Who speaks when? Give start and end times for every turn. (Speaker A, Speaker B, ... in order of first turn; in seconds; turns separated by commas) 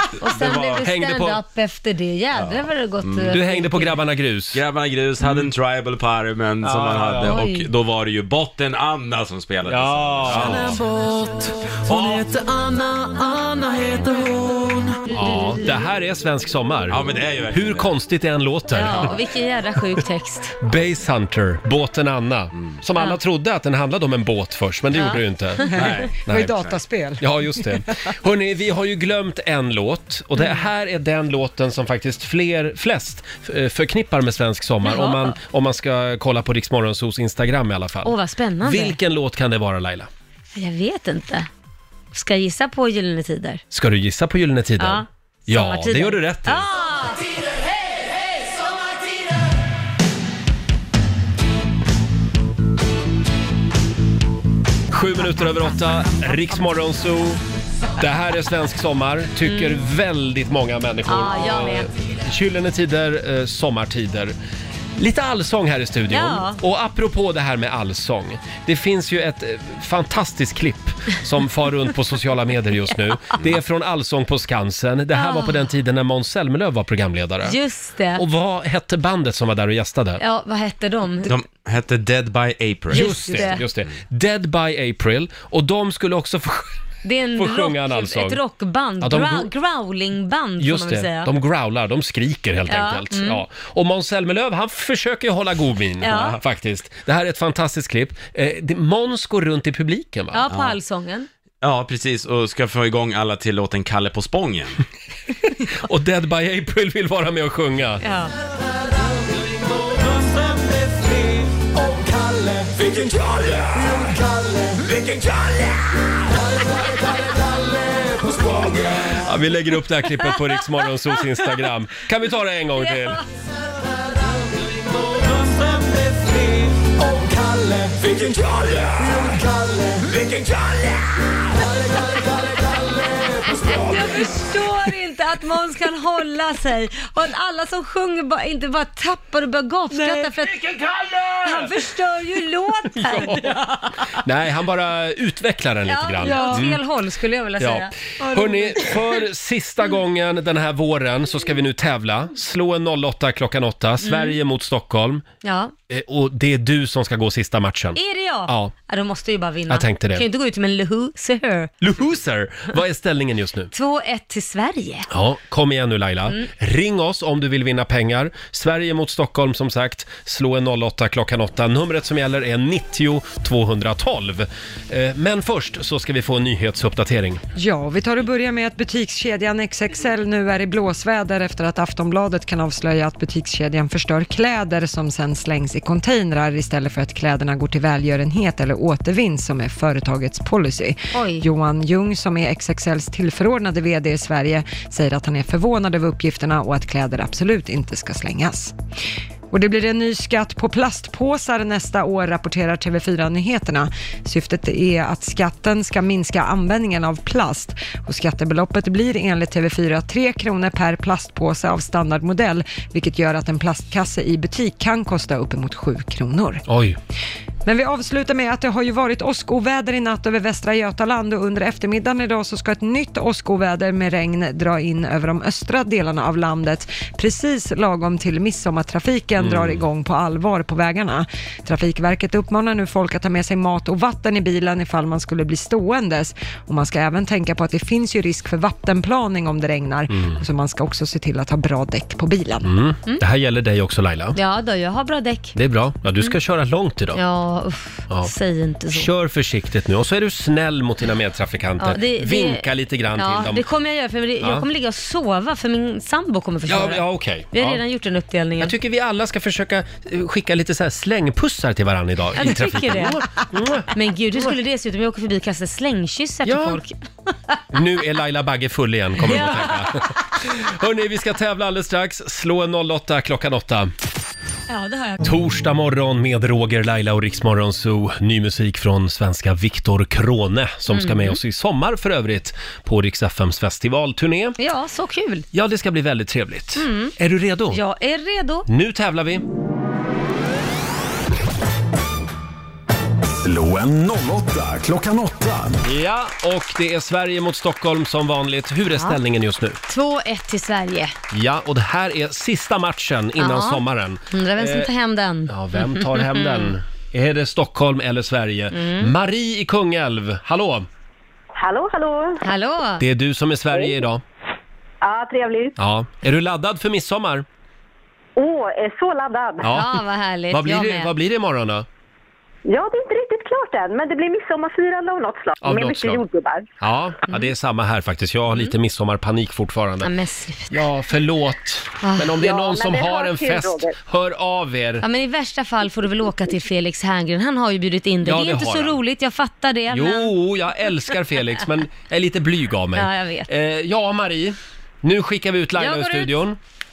Speaker A: 0.2-3.9, Speaker B: 0.2-0.8, Speaker C: 0.8-1.4, Speaker B: 2.3-3.4, Speaker C: 3.3-4.6, Speaker B: 4.5-11.0, Speaker C: 5.2-5.5, Speaker C: 6.6-7.3, Speaker A: 7.2-7.7, Speaker C: 9.7-10.8, Speaker B: 11.9-12.2, Speaker C: 11.9-12.2, Speaker C: 15.1-19.1, Speaker B: 16.9-17.9, Speaker A: 18.7-20.6, Speaker C: 20.6-40.1, Speaker A: 24.9-25.8, Speaker B: 25.7-26.2, Speaker D: 25.7-27.8, Speaker A: 34.8-35.3, Speaker A: 38.0-39.0, Speaker A: 40.5-41.5, Speaker A: 42.1-43.6, Speaker C: 43.7-46.7, Speaker A: 44.8-47.3, Speaker C: 54.9-57.4, Speaker C: 58.0-64.3, Speaker A: 59.4-59.8, Speaker A: 61.1-61.9, Speaker C: 65.0-77.5, Speaker A: 66.1-66.6, Speaker A: 75.1-75.7, Speaker A: 77.4-78.2, Speaker C: 78.1-80.2, Speaker A: 80.2-81.3, Speaker B: 81.2-83.9, Speaker C: 82.9-86.7, Speaker A: 82.9-83.6, Speaker A: 87.0-91.3, Speaker C: 87.3-88.4, Speaker C: 89.0-89.5, Speaker C: 90.6-100.4, Speaker A: 92.7-93.4, Speaker A: 96.0-96.4, Speaker A: 100.3-101.3, Speaker B: 100.5-100.8, Speaker B: 101.6-104.8, Speaker C: 105.7-108.0, Speaker A: 108.0-108.3, Speaker E: 108.9-119.2, Speaker C: 119.2-123.2, Speaker E: 124.4-134.4, Speaker A: 133.6-140.7, Speaker E: 140.6-141.7, Speaker A: 141.4-144.1, Speaker C: 142.9-143.5, Speaker C: 144.2-146.8, Speaker A: 145.8-148.9, Speaker D: 146.2-146.6, Speaker C: 147.6-155.2, Speaker A: 154.0-154.3, Speaker A: 155.4-155.7, Speaker C: 155.9-158.7, Speaker A: 157.9-161.7, Speaker C: 159.7-160.2, Speaker C: 161.8-163.7, Speaker A: 163.7-165.1, Speaker C: 165.1-177.4, Speaker D: 177.5-198.8, Speaker A: 191.1-191.4, Speaker D: 199.5-216.6, Speaker C: 216.7-217.0, Speaker D: 217.6-242.7, Speaker C: 229.4-229.8, Speaker C: 240.1-240.4, Speaker C: 242.6-244.4, Speaker A: 244.3-245.5, Speaker C: 245.5-247.2, Speaker A: 247.1-249.1, Speaker C: 248.9-253.6, Speaker A: 251.8-258.7, Speaker C: 256.7-257.8, Speaker C: 258.6-264.5, Speaker A: 262.4-263.2, Speaker A: 263.9-266.9, Speaker C: 266.4-266.8, Speaker C: 267.7-273.9, Speaker A: 269.2-269.9, Speaker A: 274.7-275.2, Speaker C: 275.2-284.6, Speaker A: 280.9-281.4, Speaker A: 284.6-285.5, Speaker C: 285.5-287.8, Speaker A: 286.8-287.1, Speaker A: 287.7-288.7, Speaker C: 288.7-289.4, Speaker E: 293.4-295.8, Speaker C: 295.8-299.8, Speaker A: 299.9-301.1, Speaker C: 301.3-304.9, Speaker A: 303.4-306.7, Speaker C: 305.5-310.9, Speaker A: 308.7-309.1, Speaker F: 311.5-312.4, Speaker A: 312.4-313.0, Speaker C: 313.0-314.2, Speaker F: 315.0-315.8, Speaker C: 315.8-317.4, Speaker F: 318.4-319.7, Speaker C: 319.6-321.9, Speaker A: 319.6-321.1, Speaker F: 322.6-326.7, Speaker C: 325.6-326.2, Speaker C: 326.8-330.1, Speaker A: 330.0-330.8, Speaker C: 330.7-335.0, Speaker A: 332.0-332.4, Speaker F: 332.4-333.9, Speaker A: 335.0-340.3, Speaker C: 338.2-339.0, Speaker C: 339.9-346.6, Speaker A: 342.9-343.5, Speaker A: 345.8-346.3